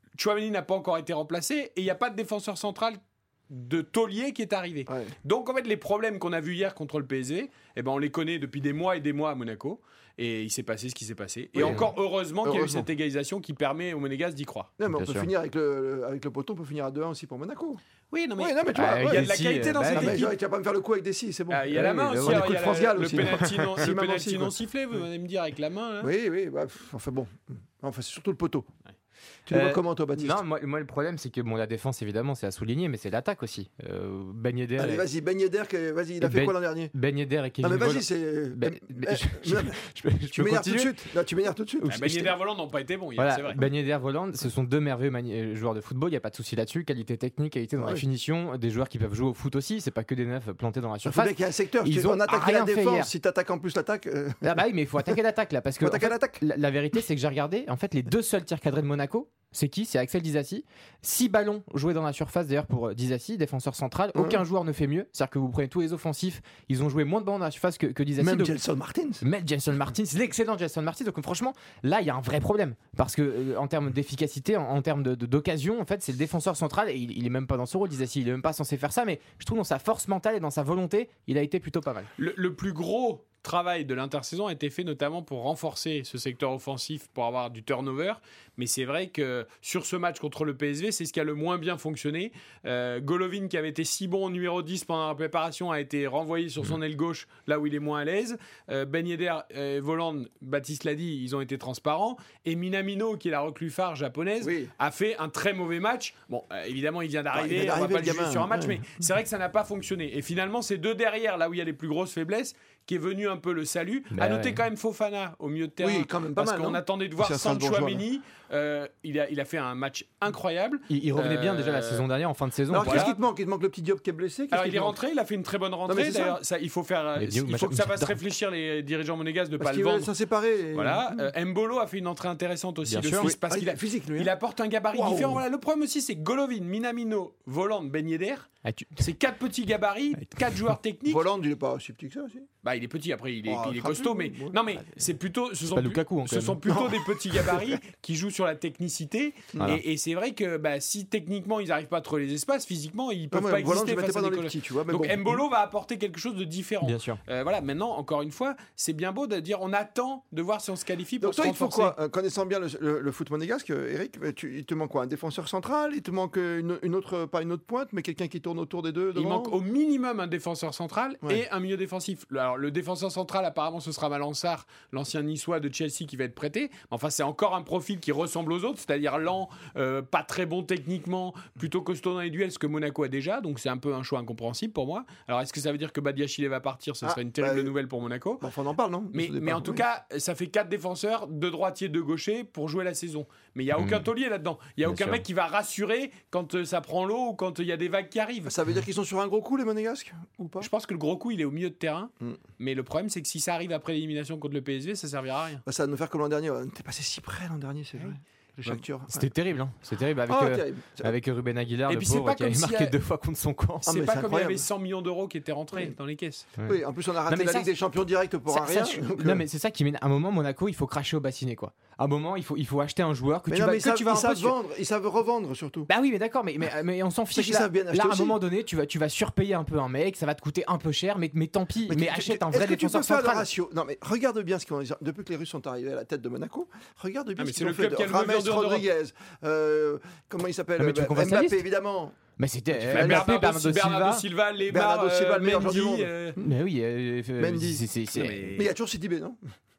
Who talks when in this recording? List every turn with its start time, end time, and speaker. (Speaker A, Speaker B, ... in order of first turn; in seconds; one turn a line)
Speaker A: 0.1-14.7
Speaker B: 4.9-5.1
Speaker B: 11.5-12.9
Speaker C: 11.6-11.9
Speaker B: 14.8-17.8
Speaker C: 14.8-15.3
Speaker A: 18.1-20.3
Speaker B: 18.4-24.6
Speaker C: 18.7-20.3
Speaker A: 21.5-26.1
Speaker C: 21.7-23.9
Speaker B: 26.0-28.7
Speaker B: 29.5-30.4
Speaker C: 29.5-35.0
Speaker B: 34.8-36.9
Speaker C: 36.2-41.0
Speaker B: 37.6-41.9
Speaker C: 41.8-42.4
Speaker A: 41.9-43.6
Speaker C: 43.2-53.1
Speaker B: 47.8-48.0
Speaker B: 51.0-55.2
Speaker C: 54.4-68.5
Speaker B: 55.8-56.4
Speaker B: 64.1-64.4
Speaker B: 68.2-69.2
Speaker C: 69.2-82.1
Speaker A: 82.2-122.1
Speaker B: 104.4-104.7
Speaker B: 107.3-108.8
Speaker C: 114.1-114.6
Speaker B: 115.8-118.0
Speaker C: 120.9-123.1
Speaker B: 122.7-125.0
Speaker A: 122.8-123.2
Speaker A: 124.5-130.1
Speaker B: 125.8-126.4
Speaker C: 127.2-128.2
Speaker B: 129.6-131.3
Speaker A: 130.7-141.2
Speaker C: 132.8-133.3
Speaker B: 133.2-134.3
Speaker B: 134.9-135.4
Speaker C: 138.6-139.1
Speaker C: 140.2-140.4
Speaker B: 141.1-142.5
Speaker A: 142.6-161.9
Speaker B: 143.5-144.6
Speaker C: 145.7-146.8
Speaker B: 147.3-147.7
Speaker B: 153.3-155.4
Speaker C: 156.8-157.2
Speaker B: 161.2-169.5
Speaker A: 169.1-188.4
Speaker B: 187.0-187.7
Speaker B: 188.4-189.8
Speaker A: 189.1-198.5
Speaker C: 193.8-194.1
Speaker C: 194.8-195.2
Speaker B: 198.4-200.7
Speaker A: 200.6-205.6
Speaker B: 205.6-209.3
Speaker C: 209.1-213.9
Speaker B: 210.3-211.1
Speaker A: 211.9-212.9
Speaker B: 213.8-214.6
Speaker A: 213.8-216.5
Speaker C: 216.6-217.8
Speaker B: 216.6-219.4
Speaker C: 218.5-224.6
Speaker B: 223.5-225.9
Speaker C: 225.9-233.5
Speaker B: 227.3-228.4
Speaker B: 231.9-242.2
Speaker A: 237.4-238.8
Speaker C: 240.8-241.6
Speaker C: 242.4-244.2
Speaker B: 242.7-243.3
Speaker A: 242.9-246.4
Speaker B: 244.7-246.4
Speaker C: 246.4-248.7
Speaker B: 247.4-247.8
Speaker A: 248.1-248.7
Speaker B: 248.5-249.4